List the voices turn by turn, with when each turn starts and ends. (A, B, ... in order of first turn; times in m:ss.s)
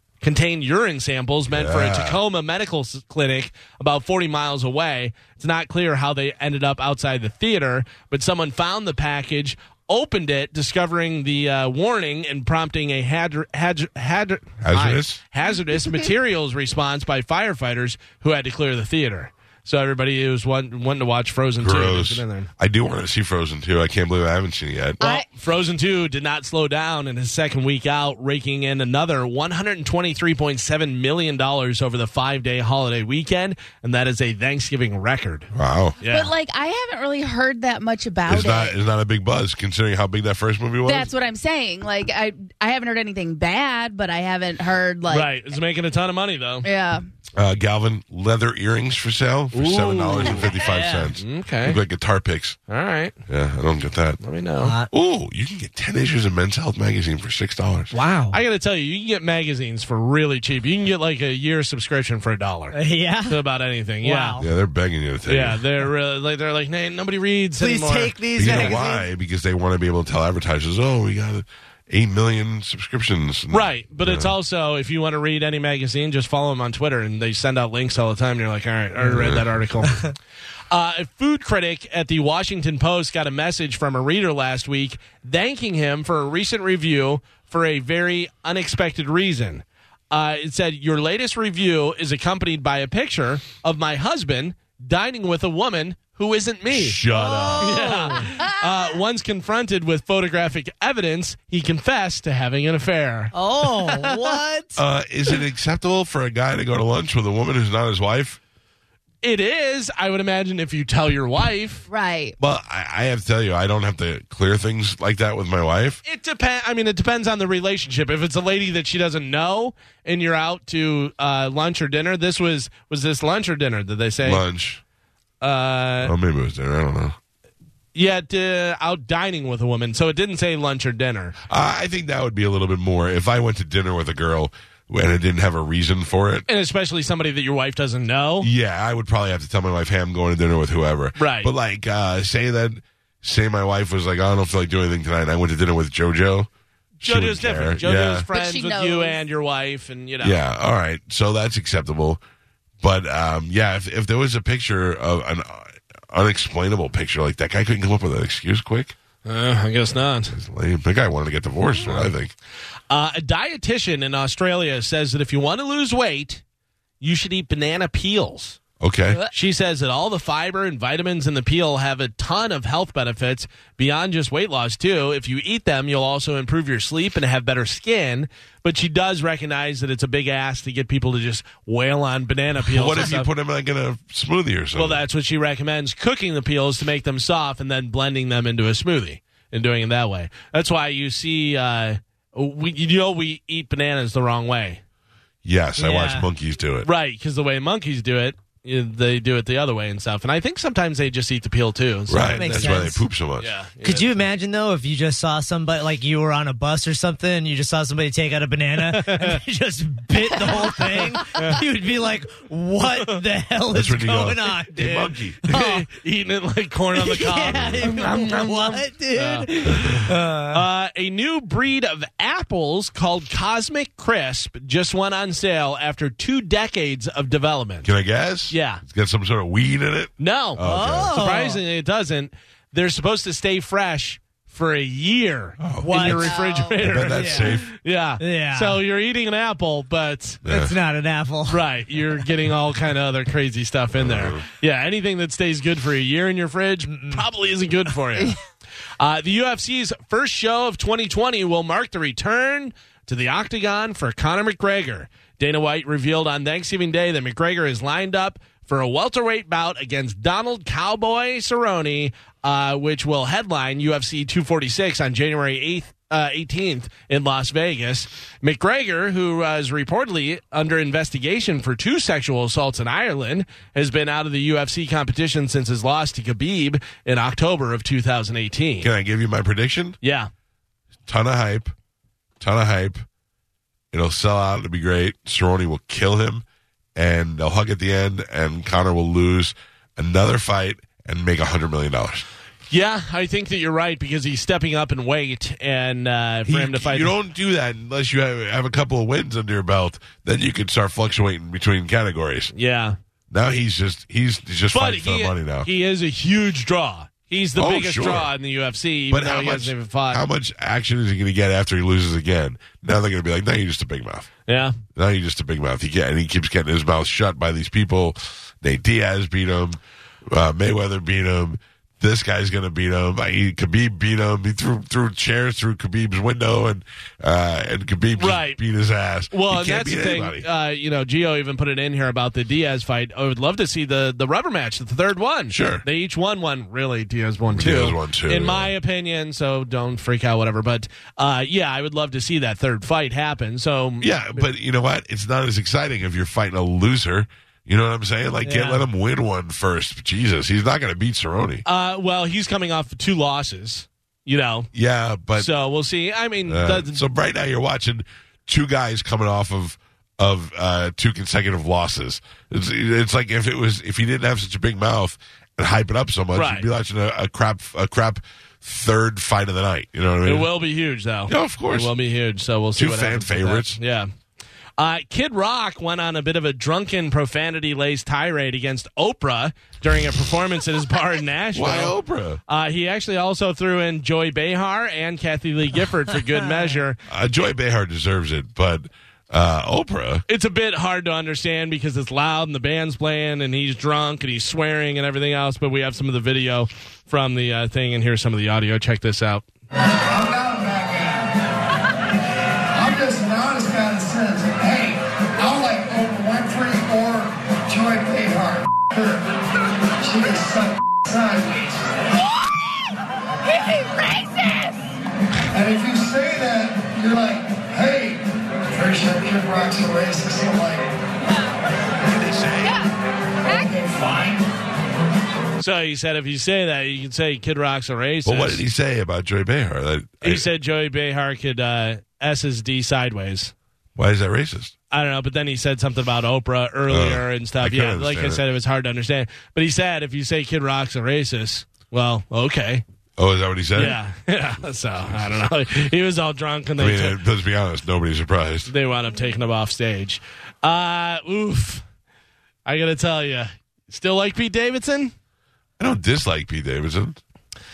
0:00.2-0:22.5 A
0:01.5-0:02.2 B
0:14.6-0:15.2 B
0:21.6-0:25.0 B
0:25.0-0:25.3 C
0:25.0-0:36.3 A
0:35.5-0:36.0 B
0:36.0-0:38.8 C
0:38.3-0:41.1 B
0:40.8-0:45.3 C
0:45.1-0:46.7 A
0:46.6-0:47.1 C
0:47.4-0:52.6 B
0:49.5-0:50.6 A
0:50.6-0:51.1 D
0:51.2-0:51.8 A
0:52.7-0:53.2 A
0:53.3-0:54.2 B
0:54.2-0:54.8 A
0:54.6-0:54.9 D
0:54.9-0:57.9 B
0:57.9-0:58.4 D
0:58.3-1:04.4 A
1:02.7-1:03.4 D
1:04.0-1:04.5 D
1:04.4-1:05.6 B
1:05.3-1:08.8 A
1:07.6-1:09.1 D
1:08.4-1:14.3 B
1:13.5-1:20.1 A
1:19.1-1:19.4 B
1:20.7-1:37.0 A
1:36.7-1:38.0 B
1:37.1-1:38.3 D
1:37.6-1:43.4 A
1:43.3-1:44.3 C
1:43.6-1:44.8 D
1:44.8-1:48.4 B
1:49.2-1:51.9 A
1:51.9-1:52.4 C
1:52.4-1:56.0 B
1:56.0-2:04.4 A
2:04.2-2:04.8 B
2:05.4-2:06.1 A
2:06.0-2:07.2 B
2:08.0-2:11.4 A
2:11.5-2:16.5 B
2:16.5-2:18.5 A
2:18.4-2:26.5 B
2:21.2-2:21.5 A
2:27.0-2:30.4 A
2:27.0-2:28.3 B
2:28.3-2:29.2 C
2:30.2-2:32.2 B
2:32.8-2:38.9 B
2:39.2-2:40.3 A
2:40.3-2:42.3 B
2:41.8-2:42.1 A
2:42.9-2:46.4 A
2:47.0-2:48.6 A
2:48.8-2:49.2 B
2:49.3-3:03.3 A
3:02.7-3:05.0 B
3:04.8-3:14.8 A
3:15.4-3:16.9 B
3:15.8-3:16.3 D
3:16.8-3:24.2 A
3:22.1-3:23.5 B
3:22.2-3:23.1 D
3:23.8-3:35.8 D
3:28.8-3:29.4 A
3:31.3-3:31.6 A
3:33.7-3:35.5 B
3:35.5-3:47.9 A
3:37.0-3:40.6 D
3:37.5-3:38.0 B
3:47.8-3:51.2 B
3:48.5-3:48.8 A
3:50.2-4:00.5 A
3:50.6-3:51.6 D
3:55.6-3:56.2 B
3:55.8-3:56.3 D
3:56.1-3:56.8 C
3:56.8-3:57.7 B
3:57.1-3:57.6 D
3:58.2-3:58.8 D
4:00.4-4:00.8 B
4:00.5-4:01.6 D
4:01.5-4:08.4 A
4:04.0-4:04.4 B
4:06.9-4:07.2 D
4:09.0-4:38.9 A
4:38.8-4:40.0 B
4:40.0-4:40.3 A
4:41.1-4:41.7 B
4:42.4-4:43.0 B
4:43.9-4:46.4 B
4:47.0-4:52.3 B
4:52.7-4:57.1 A
4:56.5-5:02.5 B
5:02.5-5:03.0 A
5:03.3-5:05.7 B
5:04.7-5:10.2 A
5:07.6-5:08.3 B
5:09.1-5:14.3 B
5:14.5-5:14.8 A
5:15.0-5:30.5 B
5:28.2-5:28.6 A
5:29.3-5:44.4 A
5:35.5-5:35.8 B
5:37.5-5:38.7 B
5:44.0-5:51.6 B
5:48.4-5:48.9 D
5:51.6-5:54.7 A
5:54.7-5:55.5 B
5:55.4-5:57.0 A
5:56.5-6:10.5 B
6:06.4-6:06.7 A
6:10.2-6:14.1 A
6:11.3-6:11.9 B
6:12.8-6:13.8 B
6:14.8-6:22.0 A
6:21.6-6:22.4 B
6:22.5-6:27.0 A
6:27.1-6:30.2 B
6:30.3-6:39.4 A
6:40.0-6:41.4 E
6:42.7-6:49.2 E
6:50.0-6:51.8 E
6:53.5-6:54.7 C
6:55.5-7:00.9 E
7:02.1-7:02.8 B
7:02.6-7:02.9 C
7:03.5-7:04.5 E
7:05.6-7:08.6 A
7:08.2-7:10.5 B
7:10.2-7:13.5 A
7:14.0-7:14.7 B
7:14.9-7:22.8 A
7:16.9-7:18.4 B
7:23.2-7:24.0 B
7:23.7-7:27.2 A
7:26.8-7:28.7 B
7:28.7-7:31.8 A
7:32.7-7:35.1 A
7:35.8-7:37.2 B